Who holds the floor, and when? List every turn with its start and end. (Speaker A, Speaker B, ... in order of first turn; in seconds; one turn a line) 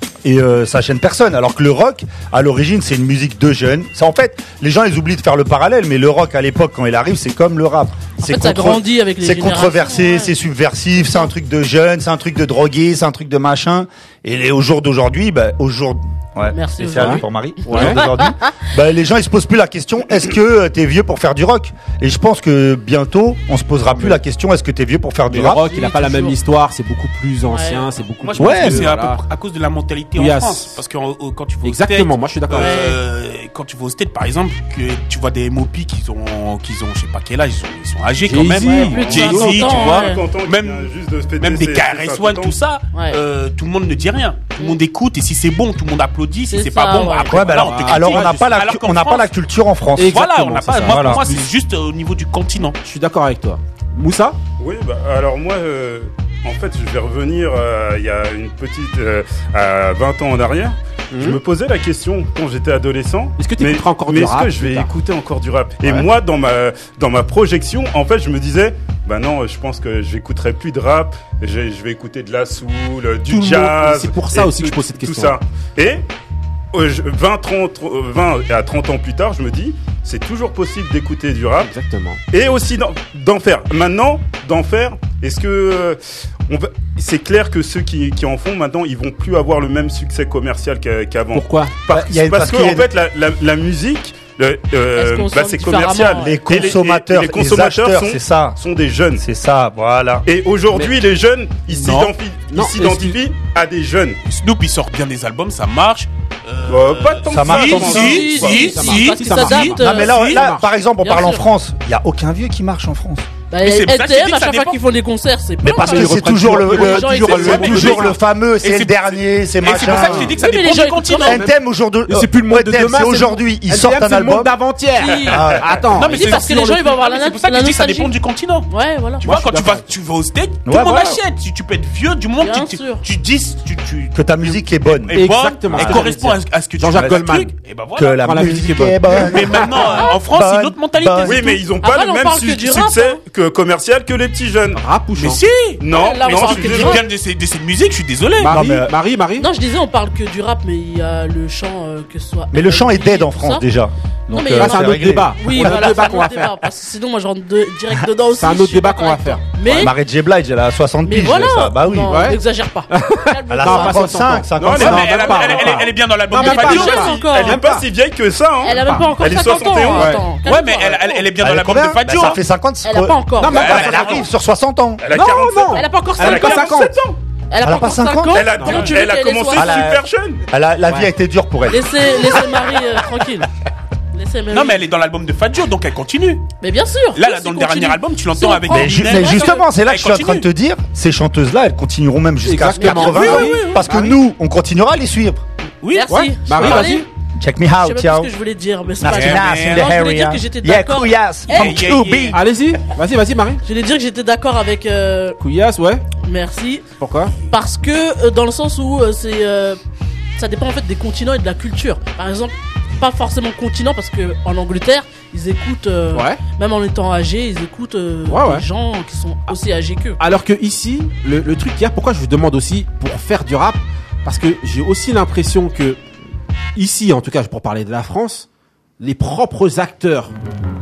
Speaker A: 0.2-25.6
Speaker B: 8.2-10.3
Speaker B: 16.5-18.6
Speaker C: 16.9-18.0
Speaker C: 25.3-29.2
Speaker B: 25.6-26.4
Speaker B: 27.5-27.9
Speaker D: 28.2-49.3
Speaker A: 28.4-28.9
Speaker C: 30.2-30.8
Speaker C: 31.6-32.8
Speaker B: 32.6-33.0
Speaker C: 38.2-39.7
Speaker B: 38.6-40.2
Speaker E: 38.9-42.6
Speaker B: 42.9-43.2
Speaker B: 46.5-47.5
Speaker A: 47.3-50.2
Speaker C: 47.6-48.5
Speaker C: 50.0-51.5
Speaker D: 50.1-52.8
Speaker A: 50.8-51.2
Speaker C: 52.8-54.4
Speaker E: 54.6-76.0
Speaker C: 61.1-61.4
Speaker C: 63.4-64.9
Speaker C: 65.8-66.1
Speaker C: 73.3-75.4
Speaker E: 76.7-81.7
Speaker C: 81.6-82.2
Speaker E: 82.3-99.2
Speaker C: 91.3-91.8
Speaker A: 91.9-92.9
Speaker B: 95.0-96.5
Speaker A: 96.1-98.6
Speaker A: 99.2-100.2
Speaker E: 100.3-104.2
Speaker D: 101.7-102.1
Speaker C: 102.5-103.2
Speaker D: 104.3-110.4
Speaker E: 106.7-108.7
Speaker A: 107.3-108.1
Speaker C: 107.7-110.7
Speaker B: 107.7-110.3
Speaker A: 109.7-113.3
Speaker B: 111.0-111.5
Speaker B: 113.5-118.0
Speaker D: 113.6-114.8
Speaker A: 115.6-120.4
Speaker C: 115.8-118.1
Speaker D: 117.1-121.4
Speaker B: 120.0-121.5
Speaker A: 121.2-124.5
Speaker C: 122.1-126.8
Speaker B: 125.0-125.5
Speaker A: 125.3-125.7
Speaker D: 126.0-128.7
Speaker B: 126.1-128.2
Speaker B: 128.7-129.3
Speaker C: 129.2-129.9
Speaker D: 129.2-138.5
Speaker A: 130.7-131.2
Speaker B: 132.4-133.0
Speaker A: 134.1-136.1
Speaker C: 135.1-137.5
Speaker A: 136.9-137.2
Speaker A: 138.0-141.4
Speaker C: 138.1-139.3
Speaker D: 139.1-141.7
Speaker E: 141.2-144.8
Speaker B: 141.7-143.2
Speaker C: 144.8-145.4
Speaker D: 145.2-148.5
Speaker E: 145.8-147.0
Speaker B: 145.9-147.1
Speaker C: 148.4-149.5
Speaker A: 148.4-148.9
Speaker B: 149.4-153.7
Speaker A: 152.5-156.0
Speaker C: 154.3-156.6
Speaker B: 154.3-159.9
Speaker C: 158.4-159.4
Speaker A: 159.6-162.2
Speaker B: 161.0-164.4
Speaker C: 162.1-167.9
Speaker A: 163.5-165.8
Speaker E: 164.6-165.1
Speaker D: 164.8-167.2
Speaker B: 166.4-167.6
Speaker E: 167.2-170.2
Speaker B: 168.6-171.3
Speaker C: 169.9-170.2
Speaker D: 170.4-172.4
Speaker A: 171.3-175.0
Speaker B: 172.8-173.7
Speaker C: 173.4-174.3
Speaker D: 173.4-174.3
Speaker E: 175.0-177.2
Speaker C: 175.1-177.0
Speaker B: 175.7-179.9
Speaker A: 177.6-178.8
Speaker E: 178.3-180.4
Speaker C: 178.6-178.9
Speaker A: 179.5-182.4
Speaker B: 181.7-183.5
Speaker B: 184.1-184.8
Speaker D: 184.5-186.5
Speaker B: 186.6-189.7
Speaker D: 187.2-190.5
Speaker A: 188.7-195.4
Speaker C: 192.4-194.1
Speaker B: 192.8-193.9
Speaker D: 195.8-196.8
Speaker B: 195.9-197.1
Speaker C: 196.1-197.1
Speaker A: 197.4-198.3
Speaker B: 197.8-201.8
Speaker A: 199.0-202.4
Speaker D: 199.0-200.0
Speaker D: 201.5-202.4
Speaker C: 202.3-203.6
Speaker B: 203.7-205.4
Speaker C: 205.4-206.1
Speaker B: 206.2-206.8
Speaker C: 207.0-207.3
Speaker B: 207.5-209.8
Speaker B: 210.4-220.2
Speaker C: 216.1-216.4
Speaker C: 218.3-218.7
Speaker C: 220.2-226.0
Speaker C: 226.8-228.5
Speaker C: 229.0-230.3